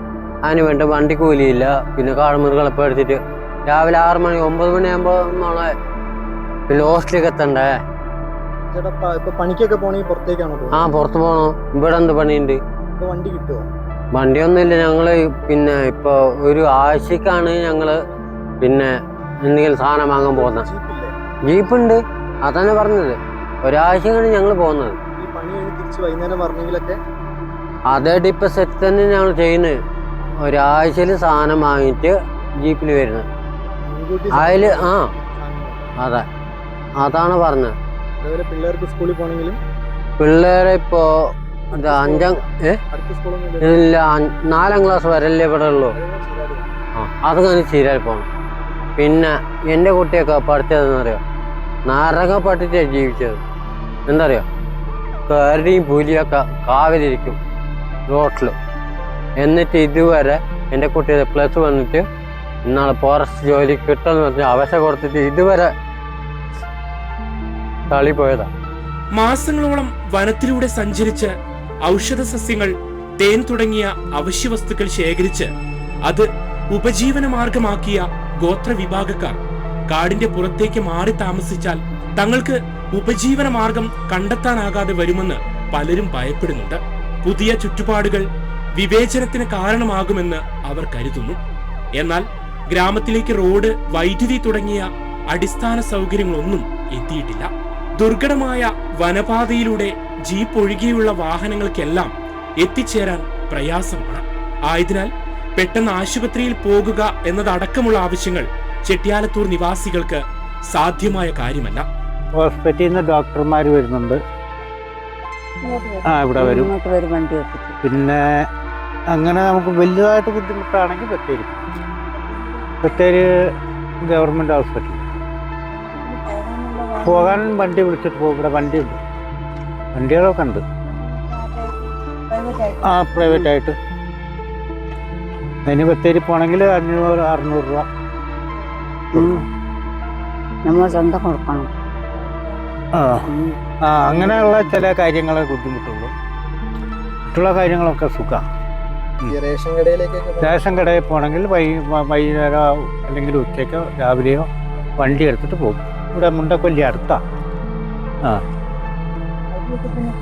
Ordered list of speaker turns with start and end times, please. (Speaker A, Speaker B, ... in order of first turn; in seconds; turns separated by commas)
Speaker A: 0.4-5.7, Speaker A: 6.7-7.7, Speaker B: 8.7-10.8, Speaker A: 10.7-12.6, Speaker B: 13.0-13.7, Speaker A: 14.1-18.0, Speaker A: 18.6-20.7, Speaker B: 20.3-21.1, Speaker A: 21.4-25.0, Speaker B: 25.2-27.0, Speaker A: 27.9-29.8, Speaker A: 30.4-33.2, Speaker B: 33.8-35.8, Speaker A: 34.3-35.1, Speaker A: 36.0-36.2, Speaker A: 37.0-37.7, Speaker B: 38.2-39.6, Speaker A: 40.2-41.0, Speaker B: 41.7-43.8, Speaker A: 41.7-42.8, Speaker A: 43.6-45.9, Speaker B: 45.9-46.6, Speaker A: 47.0-48.3, Speaker A: 49.0-51.2, Speaker A: 51.8-53.4, Speaker A: 54.1-54.4, Speaker A: 55.3-57.4, Speaker A: 58.1-58.5, Speaker A: 59.4-62.0, Speaker A: 62.6-65.7, Speaker A: 67.9-68.5, Speaker C: 69.1-71.3, Speaker C: 71.8-75.5, Speaker C: 76.0-79.4, Speaker C: 79.9-88.2, Speaker C: 88.8-91.4, Speaker C: 92.0-97.5, Speaker C: 98.0-102.1, Speaker C: 102.6-110.2, Speaker C: 110.7-111.8, Speaker D: 112.3-114.2, Speaker E: 115.6-117.8, Speaker D: 116.0-116.7, Speaker D: 117.8-118.5, Speaker D: 119.1-121.7, Speaker D: 122.8-123.3, Speaker D: 124.1-125.1, Speaker D: 127.0-129.0, Speaker D: 129.9-130.6, Speaker D: 132.8-133.8, Speaker D: 135.7-137.9, Speaker D: 139.1-139.4, Speaker E: 139.1-139.4, Speaker E: 140.6-141.7, Speaker D: 142.9-143.3, Speaker E: 143.3-143.6, Speaker D: 143.9-146.1, Speaker D: 147.3-148.4, Speaker B: 149.3-150.6, Speaker D: 150.4-154.5, Speaker D: 155.0-157.2